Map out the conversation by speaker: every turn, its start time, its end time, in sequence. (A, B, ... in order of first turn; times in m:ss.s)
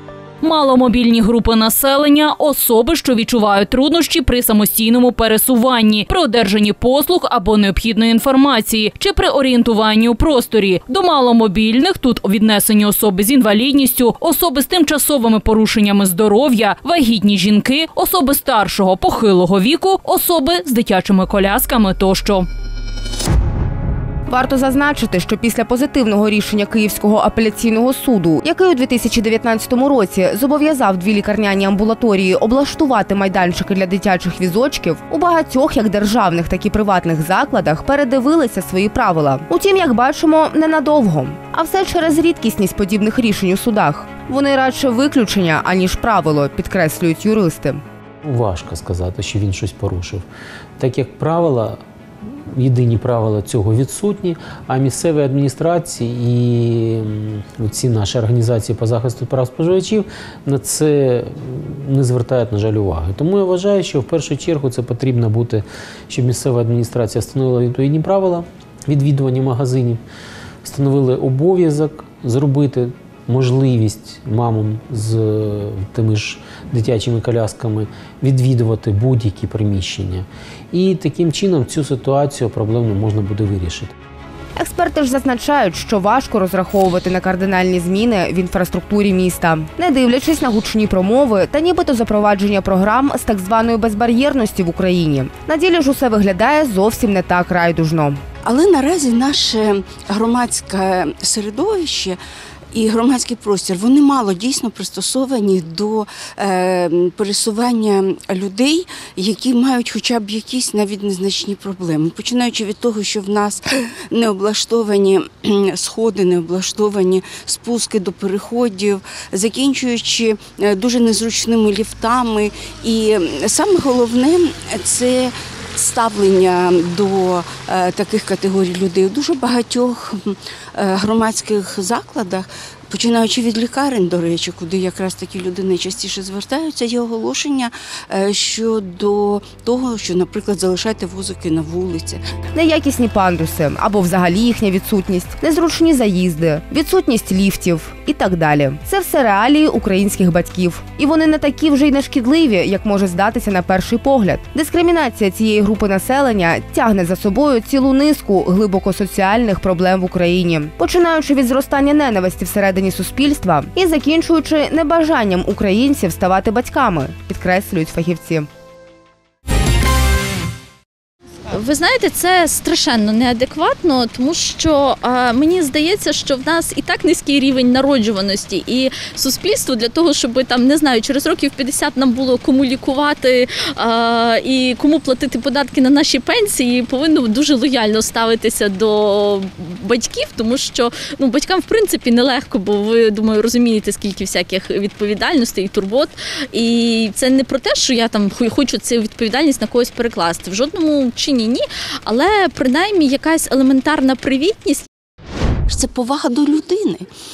0:00.4-0:22.5 A
0:24.3-0:47.8 B
0:48.2-0:50.2 C
0:50.8-0:51.8 C
0:52.5-1:10.0 C
1:10.6-1:23.9 C
1:24.6-1:38.2 B
1:38.4-1:42.2 D
1:42.7-2:22.2 D
2:22.6-2:48.5 B
2:51.5-3:24.9 E
3:25.7-3:27.0 D